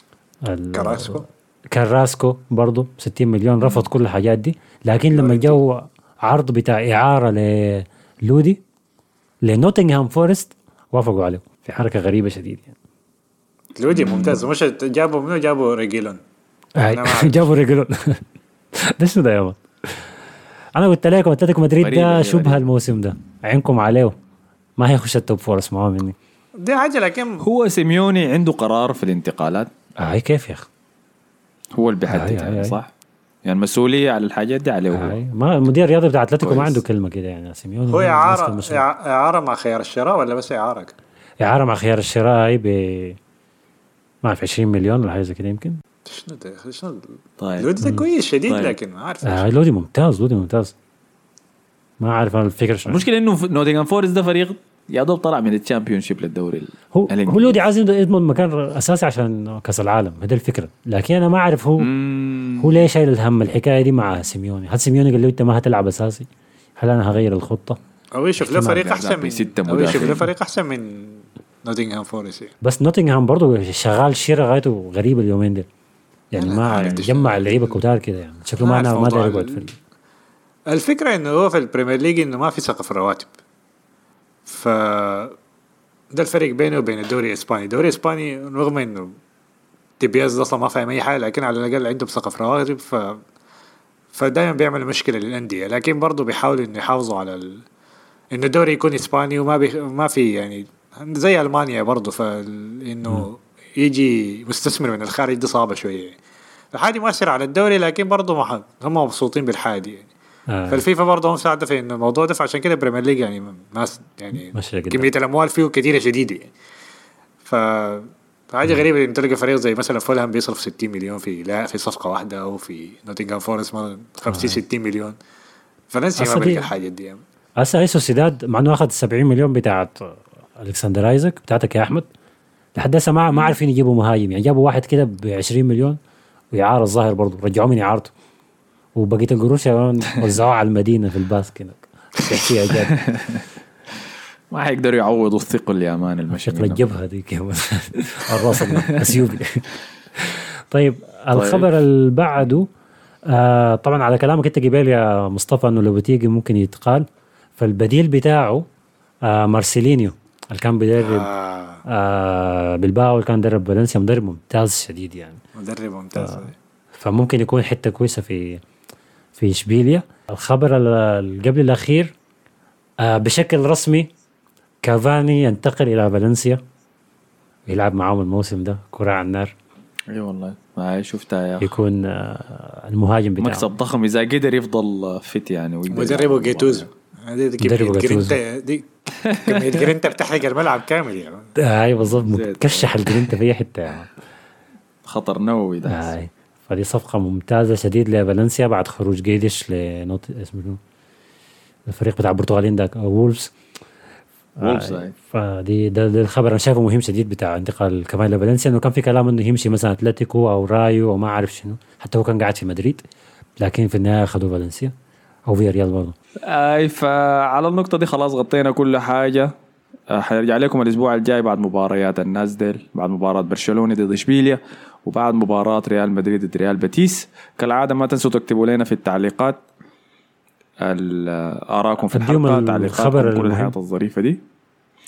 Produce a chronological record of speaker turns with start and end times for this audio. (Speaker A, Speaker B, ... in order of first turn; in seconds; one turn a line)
Speaker A: 0.4-8.6
Speaker B: 0.7-1.2
Speaker B: 5.1-5.6
Speaker A: 9.4-12.7
Speaker B: 13.7-16.2
Speaker A: 16.8-18.2
Speaker B: 16.9-17.5
Speaker A: 18.9-19.6
Speaker A: 20.7-24.1
Speaker C: 21.8-22.6
Speaker A: 24.8-26.1
Speaker B: 26.6-27.4
Speaker C: 27.4-29.7
Speaker A: 30.0-30.7
Speaker C: 31.7-32.9
Speaker A: 32.1-32.8
Speaker C: 33.4-35.2
Speaker A: 34.9-38.8
Speaker C: 36.4-36.8
Speaker B: 37.9-40.9
Speaker A: 41.4-43.2
Speaker A: 44.2-45.8
Speaker B: 46.0-49.5
Speaker C: 47.4-47.7
Speaker C: 48.5-48.7
Speaker A: 49.2-50.7
Speaker A: 52.0-53.0
Speaker C: 52.9-57.5
Speaker A: 56.9-61.9
Speaker C: 61.8-62.9
Speaker A: 62.6-67.8
Speaker B: 68.1-72.5
Speaker C: 68.4-70.3
Speaker A: 72.6-75.7
Speaker A: 76.3-79.7
Speaker B: 76.3-77.7
Speaker B: 78.6-79.6
Speaker B: 80.7-83.3
Speaker B: 84.5-85.3
Speaker B: 86.1-89.2
Speaker B: 90.0-93.2
Speaker B: 94.1-97.6
Speaker B: 98.3-106.2
Speaker B: 106.7-110.1
Speaker A: 110.5-110.8
Speaker B: 110.7-116.5
Speaker A: 114.5-115.1
Speaker B: 117.4-125.2
Speaker A: 124.3-124.6
Speaker B: 125.9-127.2
Speaker A: 126.2-126.7
Speaker A: 127.6-132.1
Speaker A: 132.8-136.0
Speaker A: 136.5-138.1
Speaker A: 138.9-143.0
Speaker C: 142.9-143.4
Speaker C: 144.5-146.8
Speaker A: 146.4-149.7
Speaker C: 148.3-149.2
Speaker A: 150.2-152.7
Speaker C: 151.3-151.7
Speaker A: 153.3-157.0
Speaker A: 157.6-158.6
Speaker A: 159.2-161.3
Speaker B: 161.0-161.8
Speaker A: 161.9-165.4
Speaker B: 165.5-166.5
Speaker A: 167.0-168.6
Speaker A: 169.4-172.1
Speaker A: 173.0-174.1
Speaker A: 174.8-176.6
Speaker A: 177.7-179.5
Speaker C: 180.1-181.6
Speaker A: 181.6-183.7
Speaker C: 183.4-186.9
Speaker B: 185.9-188.9
Speaker A: 187.6-188.4
Speaker C: 189.2-189.9
Speaker B: 189.4-191.5
Speaker A: 191.6-194.1
Speaker C: 192.1-193.3
Speaker C: 195.1-196.1
Speaker A: 195.8-200.8
Speaker A: 201.9-203.5
Speaker A: 204.6-213.0
Speaker C: 204.6-205.1
Speaker A: 213.6-214.9
Speaker A: 215.5-216.1
Speaker C: 216.5-219.5
Speaker C: 220.1-229.6
Speaker C: 230.8-234.4
Speaker A: 232.1-233.7